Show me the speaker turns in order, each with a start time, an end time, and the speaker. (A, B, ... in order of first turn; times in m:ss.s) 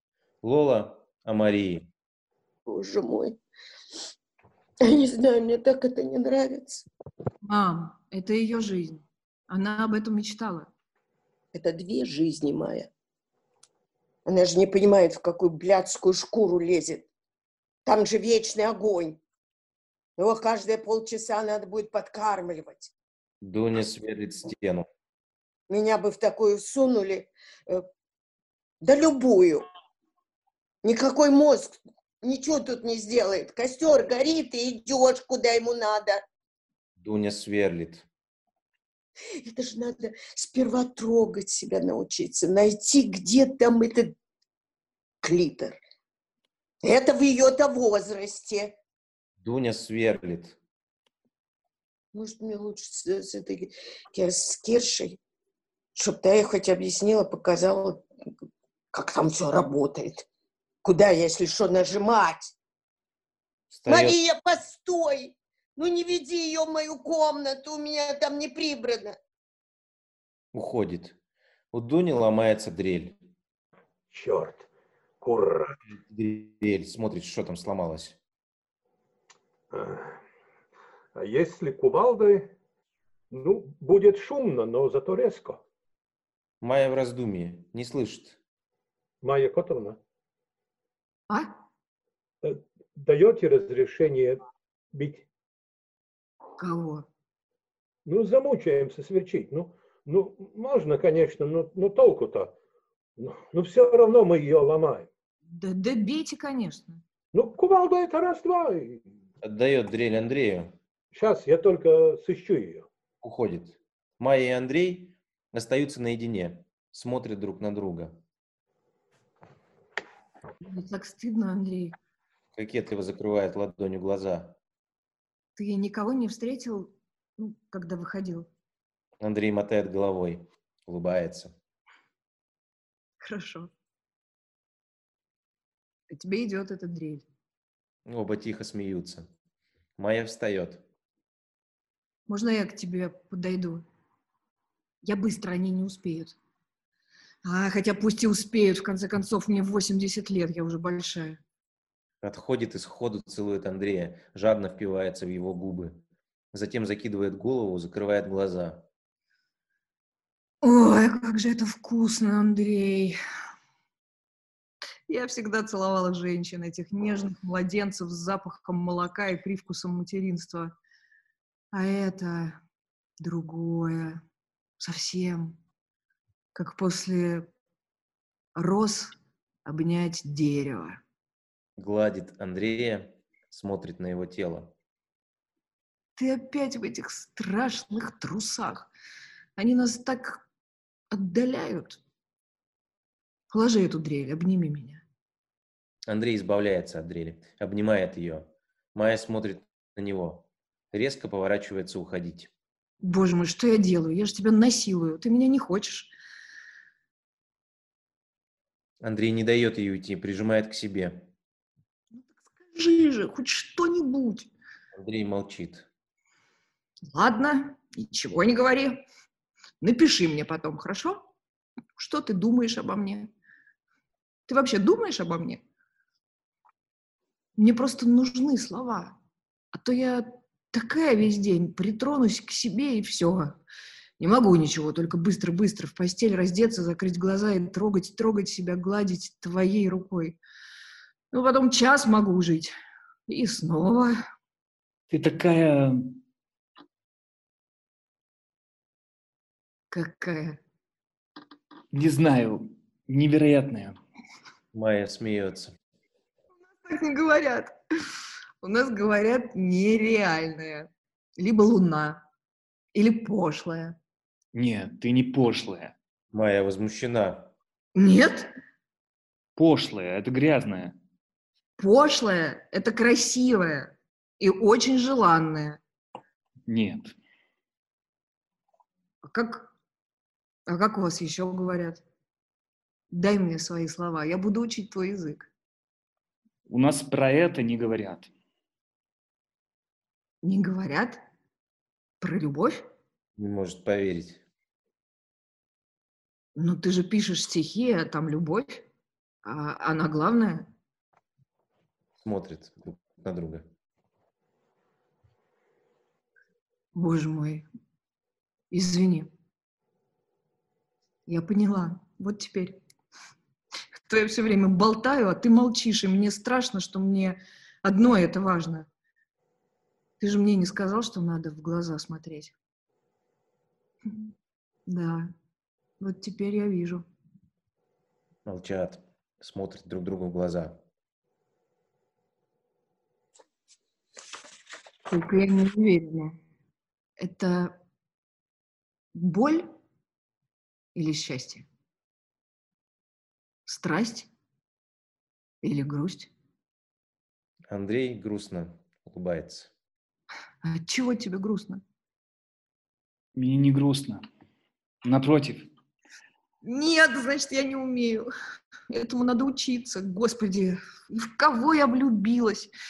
0:00.4-0:01.9 A
0:02.7-0:03.4 B
0:04.8-0:06.9 B
0:07.4-0:10.7 C
0:11.5-0:12.9 B
0:14.3-0:17.1 B
0:17.8-0:19.2 B
0:20.2-0:22.9 B
0:23.4-0:24.9 A
0:25.7-0:27.9 B
0:28.8-0:29.6 B
0:30.8-0:36.2 B
0:37.0-0:38.1 A
0:39.4-0:44.2 B
0:45.2-0:45.8 B
0:46.8-0:48.8 B
0:49.4-0:50.6 A
0:52.1-0:55.2 B
0:56.0-0:58.1 B
0:58.9-1:00.3 B
1:00.8-1:02.5 B
1:03.7-1:04.2 A
1:03.9-1:09.2 B
1:10.5-1:11.2 A
1:11.7-1:13.2 A
1:14.1-1:14.7 D
1:15.2-1:15.8 D
1:15.9-1:18.2 A
1:19.7-1:20.2 D
1:21.2-1:22.5 D
1:23.3-1:25.6 D
1:26.6-1:28.4 A
1:29.2-1:30.0 D
1:31.3-1:31.5 C
1:32.4-1:34.4 D
1:34.9-1:35.2 D
1:36.6-1:37.1 C
1:38.1-1:42.5 D
1:43.2-1:45.1 D
1:45.5-1:47.0 C
1:47.3-1:49.1 D
1:49.4-1:50.7 A
1:51.1-1:52.9 D
1:53.2-1:58.2 A
2:00.6-2:01.9 C
2:02.6-2:04.6 A
2:05.6-2:08.5 C
2:09.2-2:11.5 A
2:13.2-2:13.7 C
2:16.1-2:17.3 C
2:18.1-2:19.3 A
2:20.0-2:20.8 A
2:22.3-2:23.8 C
2:25.0-2:26.4 C
2:27.4-2:31.4 C
2:32.2-2:36.0 A
2:36.5-2:38.8 A
2:40.6-2:43.2 C
2:45.1-2:50.7 C
2:51.7-2:52.6 C
2:53.2-2:54.2 C
2:54.8-2:55.6 C
2:56.6-2:57.5 C
2:58.6-2:59.1 C
2:59.7-3:01.0 C
3:01.8-3:04.7 A
3:06.2-3:08.9 C
3:09.6-3:10.4 C
3:11.1-3:12.0 C
3:13.5-3:15.0 C
3:16.1-3:22.5 A
3:23.0-3:26.1 C
3:29.0-3:31.3 A
3:32.1-3:34.5 C
3:35.0-3:35.9 A
3:37.1-3:39.0 C
3:39.8-3:41.3 C
3:42.0-3:43.3 C
3:44.5-3:45.6 C
3:47.6-3:49.2 C
3:49.7-3:53.6 C
3:54.2-4:00.4 C
4:01.3-4:02.8 C
4:03.3-4:04.2 C
4:05.1-4:06.2 E
4:09.9-4:10.6 C
4:11.9-4:14.0 E
4:14.7-4:15.7 A
4:16.6-4:17.8 C
4:18.6-4:22.2 C
4:22.9-4:24.0 C
4:24.5-4:25.9 E
4:26.3-4:27.5 A
4:28.0-4:28.5 C
4:29.6-4:31.0 E
4:31.8-4:35.8 C
4:36.7-4:37.2 E
4:39.2-4:39.7 C
4:40.7-4:42.0 C
4:43.1-4:45.5 C
4:46.7-4:48.3 E
4:50.4-4:51.2 C
4:52.2-4:52.8 C
4:53.4-4:54.4 A
4:56.6-4:58.8 C
4:59.4-5:00.7 C
5:02.2-5:03.7 A
5:07.0-5:07.7 C
5:08.7-5:09.3 C
5:11.3-5:12.8 C
5:14.1-5:18.9 C
5:20.2-5:22.6 C
5:24.9-5:25.3 C
5:26.0-5:27.0 C
5:28.5-5:30.8 A
5:35.1-5:36.4 C
5:37.2-5:37.8 C
5:39.2-5:39.7 C
5:41.0-5:41.6 C
5:43.7-5:44.3 C
5:45.6-5:46.3 C
5:47.7-5:49.7 A
5:50.6-5:51.8 C
5:53.4-5:54.2 E
5:55.0-5:55.7 E
5:56.6-5:58.3 C
5:58.9-6:02.7 C